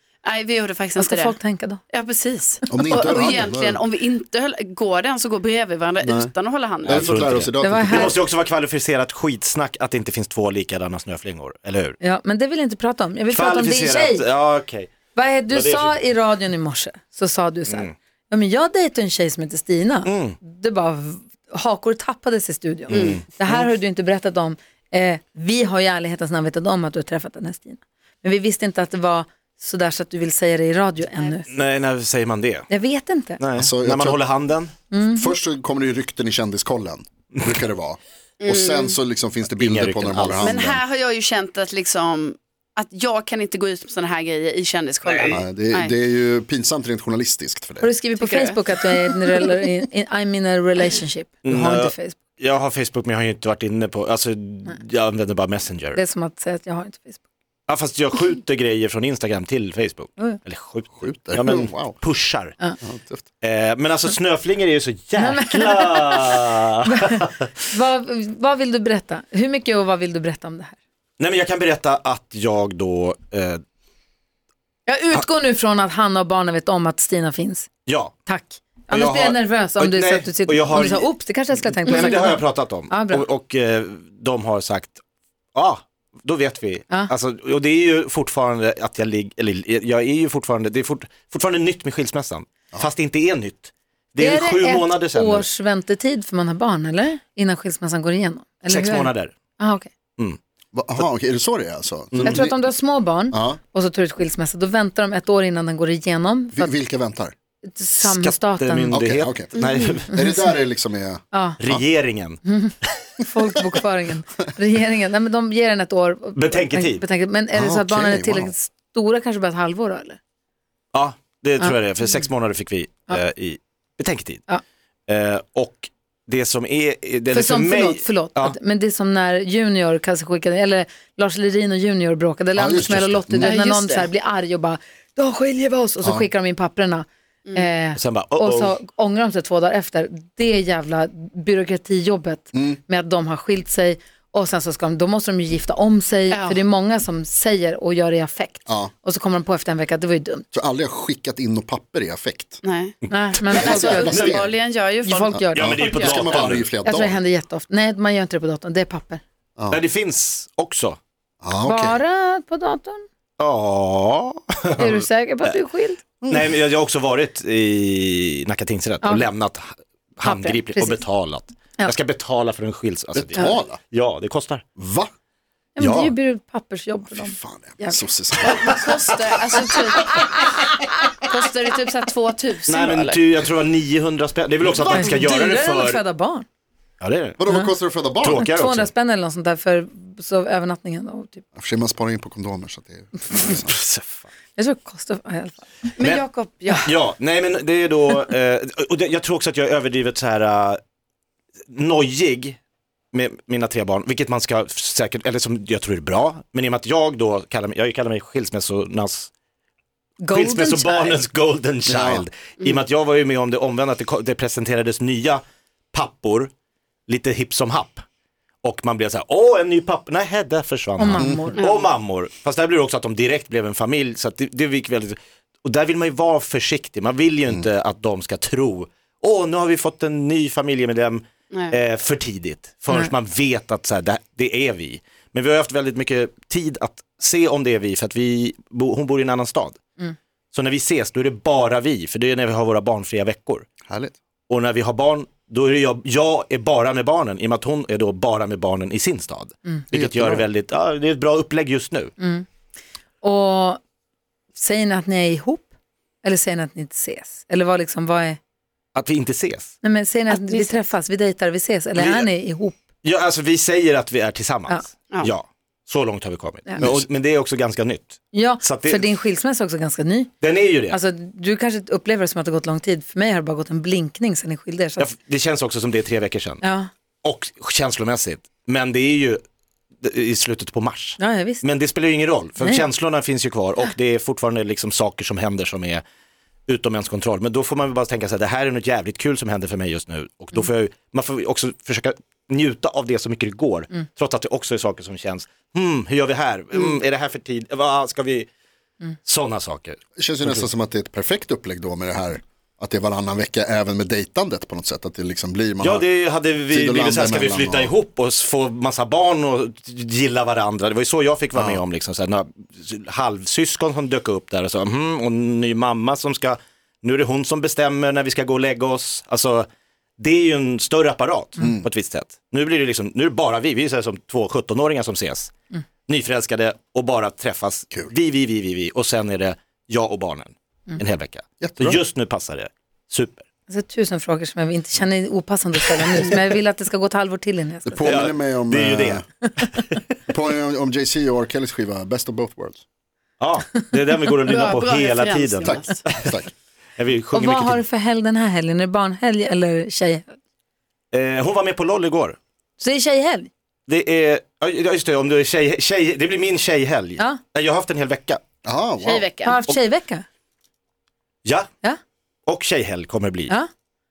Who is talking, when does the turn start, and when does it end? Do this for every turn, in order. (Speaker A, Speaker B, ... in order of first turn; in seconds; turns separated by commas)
Speaker A: 0.2-1.4, Speaker B: 1.0-1.8, Speaker A: 1.9-7.3, Speaker C: 2.7-3.8, Speaker C: 6.0-6.3, Speaker C: 6.8-8.2, Speaker D: 6.8-12.0, Speaker B: 7.6-8.2, Speaker B: 12.0-14.2, Speaker D: 13.3-14.9, Speaker B: 15.1-31.5, Speaker D: 15.5-16.0, Speaker D: 17.7-17.9, Speaker D: 20.0-20.4, Speaker D: 22.9-23.7, Speaker A: 22.9-23.2, Speaker D: 31.4-32.7, Speaker B: 32.7-33.4, Speaker D: 33.4-34.7, Speaker C: 33.5-34.2, Speaker B: 34.9-35.3, Speaker C: 35.0-40.8, Speaker A: 38.4-38.9, Speaker D: 39.5-40.6, Speaker A: 40.4-45.9, Speaker D: 45.0-45.3, Speaker C: 45.3-47.9, Speaker B: 47.8-52.2, Speaker A: 48.1-49.5, Speaker D: 51.4-56.0, Speaker B: 55.9-57.2, Speaker D: 57.7-62.6, Speaker C: 61.0-62.0, Speaker C: 62.8-63.2, Speaker D: 63.4-67.4, Speaker B: 65.2-70.8, Speaker D: 71.2-73.6, Speaker B: 74.9-77.7, Speaker D: 77.9-78.1, Speaker B: 78.2-83.2, Speaker D: 78.9-81.1, Speaker D: 81.6-85.0, Speaker D: 85.5-95.5, Speaker B: 94.2-99.9, Speaker D: 98.7-99.3, Speaker C: 100.7-102.6, Speaker D: 102.1-102.5, Speaker B: 102.2-106.7, Speaker C: 103.3-103.6, Speaker C: 106.5-107.3, Speaker B: 107.7-109.0, Speaker D: 108.0-110.2, Speaker C: 108.9-111.8, Speaker A: 109.5-109.8, Speaker B: 110.1-110.4, Speaker B: 111.3-111.6, Speaker D: 111.6-112.4, Speaker B: 112.4-120.2, Speaker D: 116.3-117.0, Speaker C: 117.5-118.5, Speaker D: 120.9-124.4, Speaker D: 125.1-128.6, Speaker B: 127.3-150.4, Speaker C: 132.6-133.5, Speaker A: 133.4-134.1, Speaker C: 136.0-136.3, Speaker D: 137.9-138.7, Speaker C: 142.5-142.8, Speaker A: 146.3-146.6, Speaker C: 150.5-152.6, Speaker A: 152.6-153.0, Speaker B: 153.1-154.3, Speaker C: 153.5-154.5, Speaker A: 153.5-156.2, Speaker D: 154.1-154.4, Speaker B: 155.0-156.3, Speaker C: 155.3-157.2, Speaker D: 155.5-156.7, Speaker B: 156.8-159.2, Speaker D: 159.7-161.0, Speaker C: 161.4-162.0, Speaker B: 161.6-163.0, Speaker D: 163.4-165.6, Speaker B: 164.8-166.0, Speaker C: 166.2-166.5, Speaker D: 166.3-174.6, Speaker B: 169.0-169.3, Speaker B: 170.5-171.0, Speaker C: 173.1-173.8, Speaker C: 174.8-175.1, Speaker B: 175.8-178.0, Speaker D: 175.8-176.1, Speaker C: 177.1-178.9, Speaker A: 178.4-180.5, Speaker A: 181.3-183.2, Speaker D: 182.7-186.0, Speaker C: 184.7-185.1, Speaker B: 184.9-186.4, Speaker D: 187.0-187.4, Speaker C: 187.4-188.4, Speaker D: 188.2-188.9, Speaker B: 188.4-191.4, Speaker C: 191.5-193.7, Speaker D: 193.5-194.3, Speaker B: 194.6-195.6, Speaker A: 196.0-196.9, Speaker D: 196.0-196.2, Speaker D: 196.8-200.8, Speaker D: 201.7-202.6, Speaker D: 203.1-209.3, Speaker B: 210.2-211.2, Speaker D: 210.3-215.4, Speaker C: 211.9-212.2, Speaker D: 215.9-216.5, Speaker D: 217.1-218.0, Speaker D: 218.6-239.8, Speaker B: 221.0-221.6, Speaker C: 221.2-221.4, Speaker A: 221.6-221.9, Speaker D: 240.5-243.7, Speaker C: 243.9-244.2, Speaker D: 244.5-252.1, Speaker C: 249.9-250.4, Speaker B: 252.2-252.5, Speaker B: 253.2-253.8, Speaker B: 254.6-255.7, Speaker B: 256.2-258.4, Speaker D: 258.9-259.7, Speaker B: 259.8-262.8, Speaker A: 260.3-260.8, Speaker D: 261.9-262.3, Speaker D: 263.0-269.1, Speaker C: 266.8-267.0, Speaker B: 268.3-270.3, Speaker D: 270.4-271.0, Speaker B: 270.9-275.1, Speaker D: 275.0-276.6, Speaker B: 276.6-276.9, Speaker D: 277.2-279.4, Speaker D: 280.0-286.0, Speaker B: 281.2-281.6, Speaker B: 282.6-282.8, Speaker D: 286.7-298.5, Speaker D: 299.2-300.6, Speaker C: 300.2-306.1, Speaker D: 305.8-319.7, Speaker C: 306.7-307.9, Speaker C: 311.6-311.8, Speaker D: 320.2-325.5, Speaker C: 321.6-321.9, Speaker D: 326.1-333.4, Speaker C: 331.6-332.0, Speaker B: 333.7-337.9, Speaker C: 337.8-339.2, Speaker D: 338.0-339.9, Speaker C: 340.3-342.8, Speaker D: 343.4-346.3, Speaker A: 344.5-346.0, Speaker C: 345.6-346.5, Speaker D: 347.0-347.8, Speaker B: 347.3-350.4, Speaker D: 351.1-352.4, Speaker B: 352.8-353.5, Speaker D: 353.9-358.4, Speaker C: 358.6-359.2, Speaker A: 359.0-359.6, Speaker B: 359.4-360.2, Speaker D: 361.4-361.7, Speaker D: 362.4-363.5